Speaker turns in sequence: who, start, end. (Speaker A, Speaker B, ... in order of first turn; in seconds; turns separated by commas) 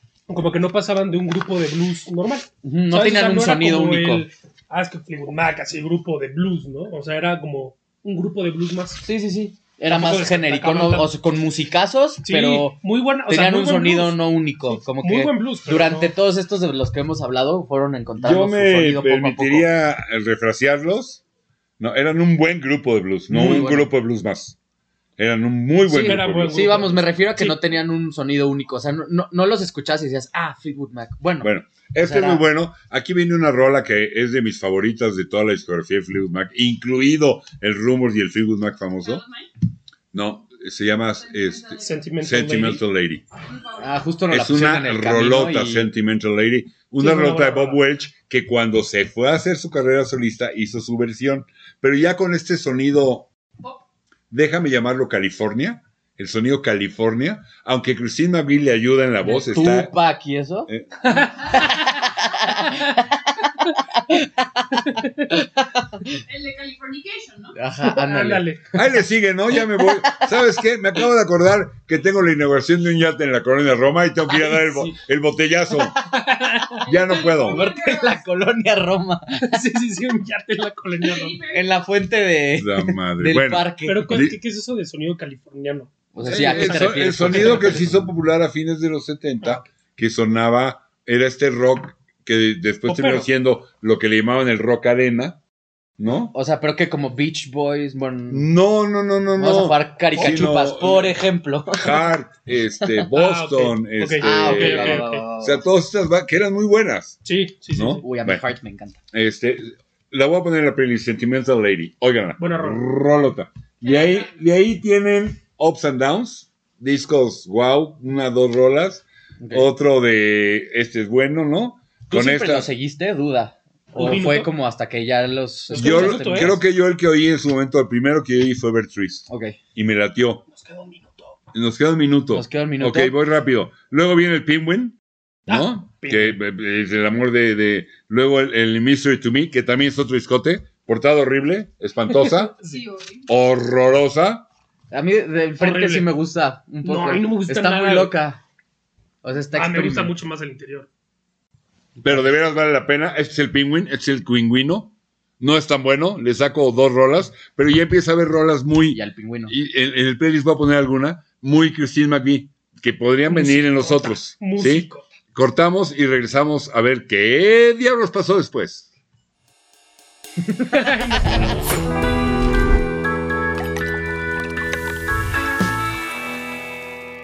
Speaker A: 0.3-9.0, Speaker B: 2.6-4.3, Speaker B: 9.0-12.8, Speaker A: 9.9-11.1, Speaker A: 12.2-16.1, Speaker B: 13.3-19.7, Speaker C: 18.2-21.2, Speaker C: 21.8-24.6, Speaker B: 23.3-23.9, Speaker C: 25.2-26.7, Speaker A: 25.9-27.6, Speaker B: 26.0-32.4, Speaker C: 31.4-39.2, Speaker D: 39.0-39.5, Speaker C: 40.1-43.2, Speaker D: 41.2-42.0, Speaker A: 41.8-42.8, Speaker D: 43.5-44.0, Speaker B: 43.8-45.9, Speaker C: 44.3-53.3, Speaker A: 47.0-47.8, Speaker C: 54.3-59.9, Speaker B: 59.3-66.2, Speaker C: 60.7-61.1, Speaker A: 61.0-61.7, Speaker D: 66.1-67.6, Speaker B: 67.5-68.5, Speaker A: 67.8-68.6, Speaker C: 68.7-76.0, Speaker B: 69.8-70.3, Speaker B: 74.3-75.0, Speaker A: 76.1-76.8, Speaker C: 76.9-77.7, Speaker D: 76.9-78.2, Speaker B: 77.4-79.6, Speaker A: 79.4-81.4, Speaker D: 81.0-81.7, Speaker B: 81.5-84.3, Speaker C: 82.6-84.4, Speaker A: 83.9-87.8, Speaker B: 86.1-88.1, Speaker C: 86.2-95.4, Speaker A: 92.9-93.3, Speaker C: 96.0-96.3, Speaker B: 96.3-98.5, Speaker C: 98.3-101.2, Speaker B: 99.4-102.1, Speaker A: 100.2-100.5, Speaker C: 101.7-107.2, Speaker A: 103.1-105.3, Speaker B: 104.2-105.7, Speaker A: 107.2-108.0, Speaker C: 107.7-108.4, Speaker B: 108.0-109.0, Speaker C: 109.1-122.7, Speaker A: 112.4-112.8, Speaker D: 113.8-114.3, Speaker B: 119.4-119.7, Speaker B: 122.1-126.6, Speaker A: 124.0-124.5, Speaker A: 125.7-126.6, Speaker C: 125.7-130.5, Speaker B: 129.3-129.6, Speaker A: 130.5-131.4, Speaker C: 131.5-142.5, Speaker B: 132.3-133.2, Speaker A: 135.5-136.4, Speaker A: 142.1-142.8, Speaker D: 142.6-143.3, Speaker C: 143.3-144.5, Speaker B: 144.9-148.4, Speaker A: 145.6-146.1, Speaker A: 146.8-148.2, Speaker B: 149.2-150.1, Speaker A: 149.5-150.9, Speaker B: 152.0-152.3, Speaker C: 152.0-168.9, Speaker B: 158.9-159.5, Speaker A: 163.3-165.1, Speaker A: 170.6-171.7